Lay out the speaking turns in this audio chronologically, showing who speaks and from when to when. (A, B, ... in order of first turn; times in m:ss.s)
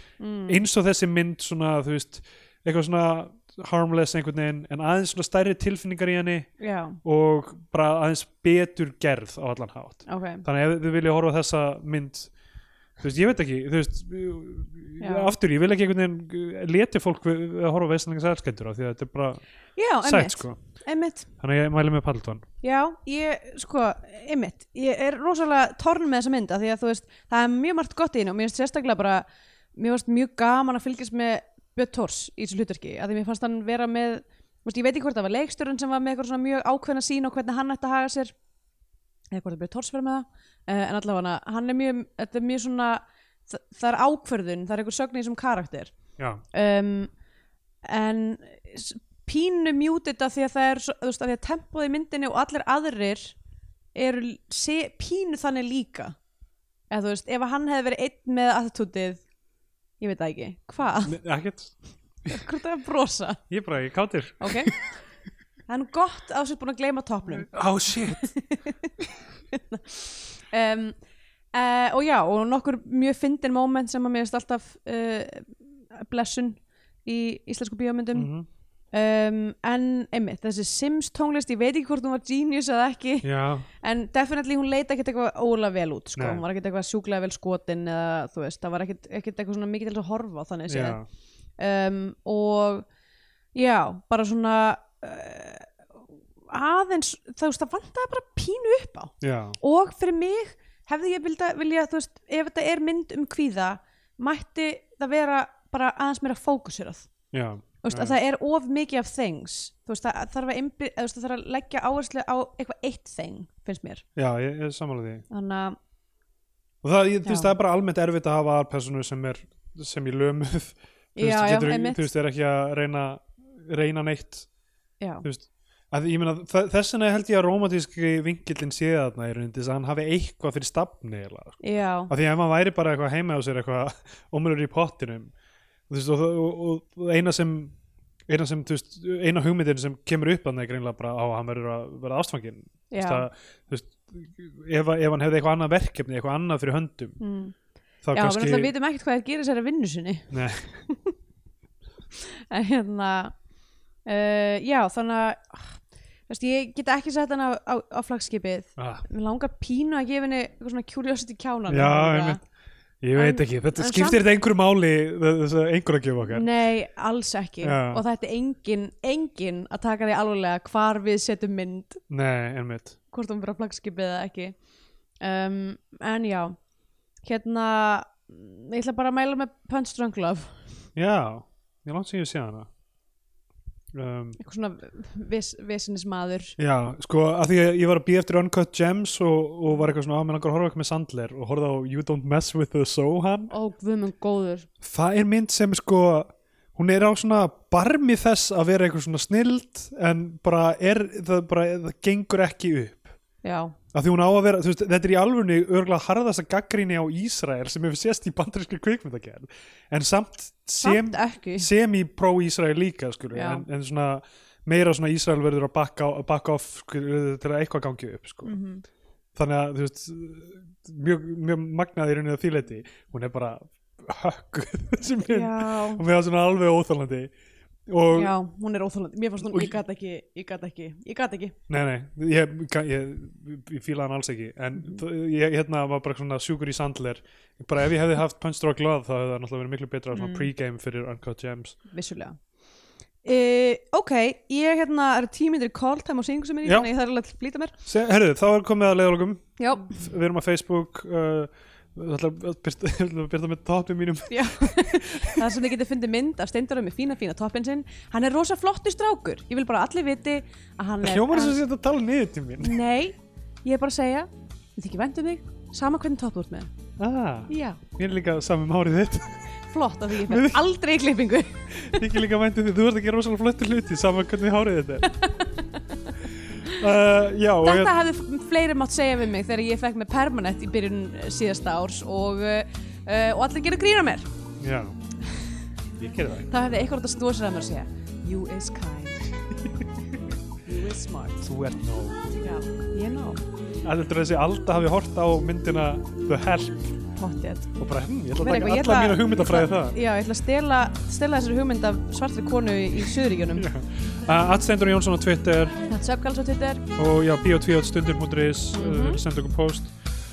0:00.2-0:00.6 A
0:00.5-0:06.5 B
0:06.6-0:07.0 A
0:07.0-0:12.3 B
0:10.1-0:10.4 A
0:13.0-0:19.4 B
0:15.0-0:15.3 A
0:19.8-0:21.3 A
0:20.0-0:20.6 B
0:21.4-0:22.5 B
0:22.6-0:38.3 A
0:39.3-0:46.0 A
0:46.5-0:47.1 A
0:47.8-0:53.4 A
0:54.0-0:56.2 A
0:56.9-0:59.2 A
1:00.0-1:01.2 A
1:01.0-1:02.4 B
1:02.3-1:03.4 A
1:03.5-1:04.9 B
1:04.4-1:04.7 A
1:05.7-1:08.9 A
1:07.4-1:08.3 B
1:09.5-1:11.0 A
1:11.5-1:18.3 A
1:18.1-1:18.5 B
1:18.9-1:23.3 A
1:23.2-1:23.7 B
1:23.8-1:31.0 A
1:26.2-1:26.4 B
1:30.7-1:31.0 B
1:31.6-1:32.9 A
1:33.5-1:35.9 A
1:36.5-1:47.1 A
1:39.2-1:39.6 B
1:47.3-1:48.2 B
1:47.8-1:54.0 A
1:54.2-1:55.2 B
1:55.3-1:55.8 A
1:56.8-2:04.5 B
1:57.2-1:57.5 A
2:01.2-2:02.1 A
2:05.0-2:05.2 A
2:05.2-2:15.3 B
2:11.6-2:12.1 A
2:15.9-2:17.8 B
2:18.3-2:27.2 B
2:22.9-2:23.3 A
2:27.2-2:27.6 A
2:28.0-2:28.7 B
2:28.1-2:30.3 A
2:30.3-2:30.8 B
2:30.9-2:31.1 A
2:32.2-2:33.3 A
2:34.1-2:42.4 A
2:38.8-2:39.0 B
2:41.7-2:42.4 B
2:43.0-2:46.5 B
2:43.2-2:44.2 A
2:46.3-2:52.0 A
2:47.6-2:48.0 B
2:52.1-2:53.0 B
2:53.1-2:54.6 A
2:55.2-2:56.6 A
2:57.2-3:00.6 A
3:01.0-3:02.7 B
3:03.9-3:04.4 B
3:04.4-3:06.6 A
3:06.6-3:13.5 B
3:13.5-3:14.7 A
3:14.8-3:23.2 B
3:23.4-3:23.7 A
3:23.9-3:38.6 B
3:30.8-3:31.7 A
3:33.3-3:33.6 A
3:38.4-3:38.8 A
3:39.4-3:47.3 B
3:45.2-3:46.0 A
3:47.9-3:48.3 B
3:48.1-3:51.6 A
3:49.5-3:49.7 B
3:51.7-4:01.8 B
4:00.1-4:00.5 A
4:01.9-4:02.4 A
4:03.2-4:07.7 A
4:07.9-4:15.5 B
4:09.6-4:10.0 A
4:14.3-4:21.6 A
4:21.0-4:22.8 B
4:22.6-4:26.7 A
4:27.0-4:29.4 B
4:27.5-4:27.8 A
4:29.7-4:32.0 A
4:30.2-4:30.6 B
4:31.7-4:35.2 B
4:35.1-4:36.2 A
4:36.4-4:37.9 B
4:37.6-4:44.3 A
4:44.6-4:45.0 B
4:45.2-4:45.6 A
4:46.0-4:46.8 B
4:46.5-4:49.3 A
4:50.6-4:51.5 A
4:51.5-4:52.2 B
4:52.3-4:53.4 A
4:53.8-4:56.9 B
4:57.2-4:57.7 A
4:57.8-5:00.0 B
4:58.4-5:03.7 A
5:03.6-5:05.8 B
5:05.9-5:06.8 A
5:07.0-5:10.0 B
5:08.7-5:09.2 A